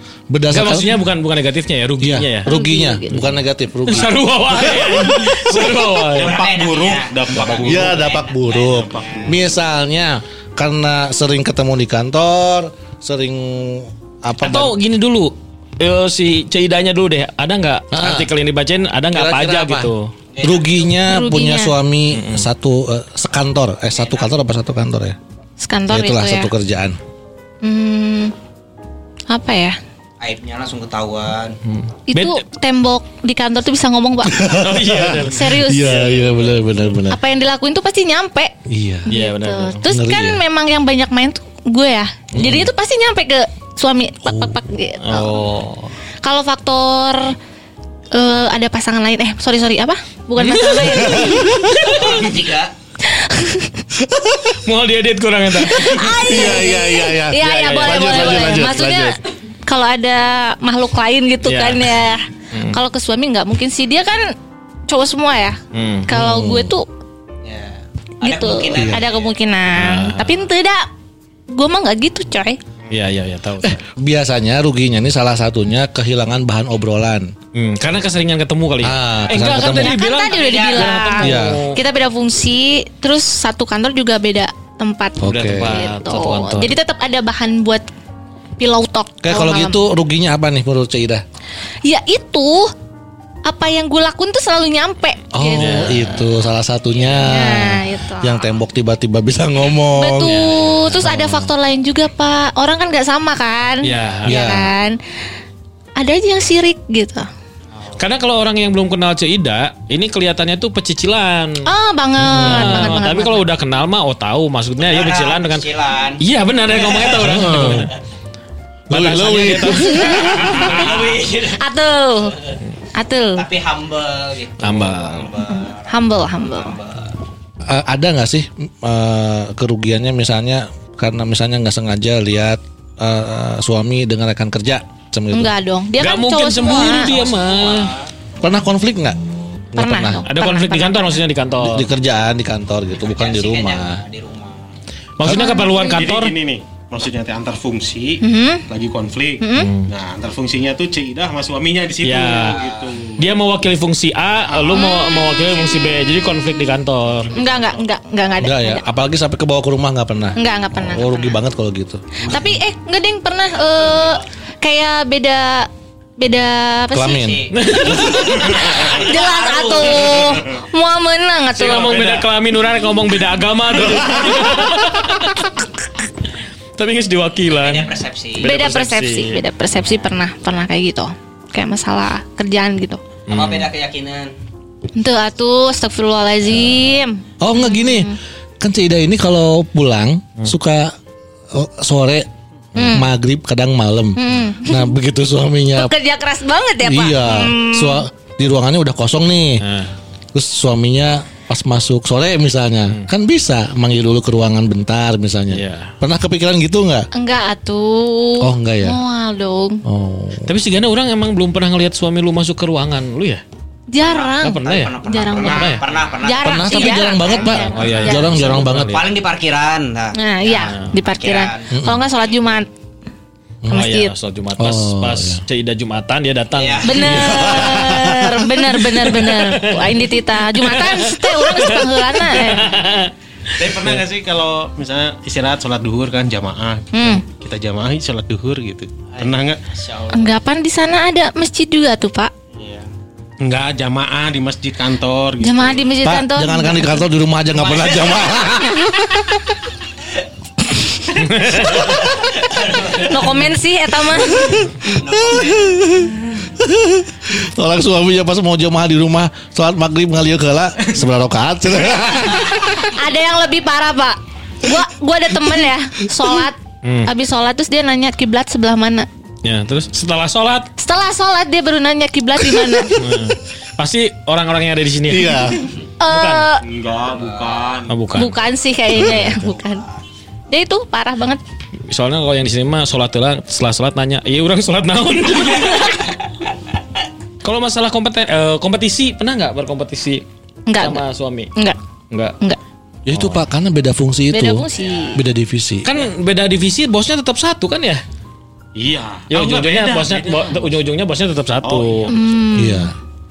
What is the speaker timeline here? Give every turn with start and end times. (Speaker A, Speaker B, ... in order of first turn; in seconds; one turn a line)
Speaker A: 0.3-1.0
Speaker B: 0.5-2.5
Speaker A: 2.0-5.4
Speaker C: 2.5-3.2
Speaker B: 3.9-6.4
Speaker D: 6.1-9.4
Speaker E: 6.2-8.2
Speaker A: 7.6-14.7
Speaker E: 8.7-9.3
Speaker B: 14.4-20.1
Speaker A: 17.9-18.3
Speaker A: 19.1-25.2
Speaker D: 20.3-20.9
Speaker C: 21.1-21.7
Speaker B: 22.1-22.5
Speaker D: 23.9-24.3
Speaker C: 25.6-26.5
Speaker A: 25.9-27.0
Speaker C: 27.6-28.3
Speaker C: 29.3-29.8
Speaker D: 30.2-31.6
Speaker B: 31.6-32.4
Speaker C: 32.1-34.6
Speaker A: 34.2-37.2
Speaker B: 34.5-36.6
Speaker C: 35.2-36.0
Speaker C: 37.1-38.5
Speaker A: 38.7-39.1
Speaker C: 39.1-45.4
Speaker B: 39.1-39.8
Speaker A: 39.9-40.4
Speaker B: 42.4-42.7
Speaker A: 44.3-44.6
Speaker B: 45.0-45.9
Speaker C: 46.2-47.4
Speaker C: 48.1-51.6
Speaker B: 50.4-52.1
Speaker A: 50.9-51.9
Speaker D: 51.8-52.7
Speaker C: 53.0-53.8
Speaker A: 54.0-54.6
Speaker B: 54.6-56.4
Speaker C: 55.6-64.3
Speaker A: 56.0-59.2
Speaker B: 57.4-58.7
Speaker B: 61.5-61.9
Speaker C: 64.9-66.9
Speaker B: 65.7-66.1
Speaker A: 66.1-66.8
Speaker D: 67.4-69.3
Speaker C: 68.2-70.9
Speaker A: 68.7-69.0
Speaker B: 69.8-70.5
Speaker C: 71.5-72.6
Speaker B: 72.9-73.8
Speaker A: 73.6-77.3
Speaker B: 77.5-81.8
Speaker A: 78.8-80.0
Speaker C: 79.4-87.9
Speaker D: 80.3-81.1
Speaker A: 81.2-81.6
Speaker A: 85.2-85.8
Speaker B: 85.2-86.8
Speaker C: 88.6-89.8
Speaker A: 89.2-91.2
Speaker C: 91.8-92.7
Speaker C: 93.5-96.2
Speaker A: 95.3-101.5
Speaker B: 95.5-96.3
Speaker C: 97.0-98.5
Speaker C: 100.0-105.0
Speaker B: 100.2-101.0
Speaker B: 103.8-104.3
Speaker A: 104.3-104.7
Speaker C: 106.0-107.3
Speaker D: 107.8-108.0
Speaker B: 108.0-111.7
Speaker C: 111.7-113.4
Speaker A: 112.2-113.0
Speaker B: 112.3-115.7
Speaker D: 114.8-116.2
Speaker B: 116.2-117.9
Speaker D: 116.7-117.2
Speaker A: 117.1-117.9
Speaker A: 118.9-120.6
Speaker B: 118.9-121.2
Speaker C: 119.9-120.5
Speaker D: 120.2-121.7
Speaker C: 121.5-122.4
Speaker C: 122.9-123.5
Speaker D: 123.4-127.2
Speaker B: 124.6-125.3
Speaker C: 125.5-126.8
Speaker A: 127.7-135.5
Speaker C: 135.3-137.1
Speaker B: 136.0-137.9
Speaker D: 136.6-138.1
Speaker A: 138.4-139.2
Speaker A: 139.7-140.2
Speaker C: 139.8-141.2
Speaker B: 140.3-141.9
Speaker A: 141.6-144.0
Speaker D: 143.0-144.7
Speaker B: 145.2-146.3
Speaker A: 145.2-145.6
Speaker C: 145.2-145.9
Speaker E: 145.8-153.2
Speaker C: 148.2-148.6
Speaker C: 149.4-149.7
Speaker B: 149.6-149.9
Speaker B: 152.0-152.6
Speaker D: 152.3-153.0
Speaker B: 153.2-157.3
Speaker C: 154.6-155.7
Speaker C: 157.3-158.8
Speaker E: 157.5-157.8
Speaker A: 158.4-162.2
Speaker C: 160.4-161.3
Speaker D: 162.2-162.5
Speaker C: 162.2-167.3
Speaker D: 163.8-164.2
Speaker A: 166.9-167.5
Speaker D: 167.1-170.4
Speaker B: 167.5-168.9
Speaker C: 168.3-172.1
Speaker B: 171.6-175.7
Speaker B: 176.8-179.4
Speaker D: 177.5-178.5
Speaker C: 178.4-183.0
Speaker B: 183.3-183.7
Speaker D: 183.3-184.3
Speaker C: 185.0-188.2
Speaker A: 187.4-190.9
Speaker A: 191.5-195.9
Speaker C: 192.8-193.1
Speaker C: 194.2-194.9
Speaker C: 195.7-198.1
Speaker A: 196.8-199.7
Speaker B: 199.6-199.9
Speaker A: 200.3-207.1
Speaker B: 205.5-205.9
Speaker C: 207.1-209.8
Speaker A: 208.4-209.0
Speaker A: 209.8-210.5
Speaker B: 210.4-213.4
Speaker C: 213.9-218.3
Speaker D: 214.0-221.7
Speaker B: 214.4-215.9
Speaker A: 216.4-219.0
Speaker B: 217.7-219.1
Speaker C: 220.2-222.7
Speaker B: 220.6-220.9
Speaker A: 221.7-222.0
Speaker C: 223.7-224.1
Speaker B: 223.7-227.6
Speaker A: 224.6-225.4
Speaker D: 226.5-227.8
Speaker C: 226.8-232.7
Speaker A: 227.0-228.5
Speaker B: 228.9-230.0
Speaker B: 230.6-233.1
Speaker E: 233.6-239.6
Speaker C: 236.9-237.2
Speaker D: 239.1-240.4
Speaker C: 240.1-242.3
Speaker D: 242.5-242.9
Speaker E: 243.4-245.9
Speaker C: 245.4-247.0
Speaker A: 246.0-249.4
Speaker D: 247.5-248.7
Speaker B: 251.2-252.1
Speaker D: 251.9-253.5
Speaker C: 253.0-254.6
Speaker A: 254.3-262.9
Speaker D: 254.8-255.8
Speaker C: 262.6-269.1
Speaker B: 266.8-267.1
Speaker B: 269.4-270.7
Speaker C: 270.8-272.9
Speaker B: 272.9-276.5
Speaker A: 275.1-275.6
Speaker C: 276.0-276.6
Speaker E: 276.6-277.9
Speaker D: 277.0-277.8
Speaker B: 277.9-278.4
Speaker C: 278.1-279.9
Speaker B: 279.0-279.4
Speaker C: 280.5-281.4
Speaker B: 281.9-286.1
Speaker B: 287.4-290.2
Speaker C: 290.7-291.0
Speaker B: 290.8-291.5
Speaker B: 292.1-292.4
Speaker A: 293.1-295.9
Speaker B: 293.1-293.4
Speaker C: 294.3-295.2
Speaker B: 295.8-298.0
Speaker E: 298.8-300.8
Speaker B: 299.3-302.1
Speaker E: 301.6-302.2
Speaker C: 302.1-302.9
Speaker A: 302.6-302.9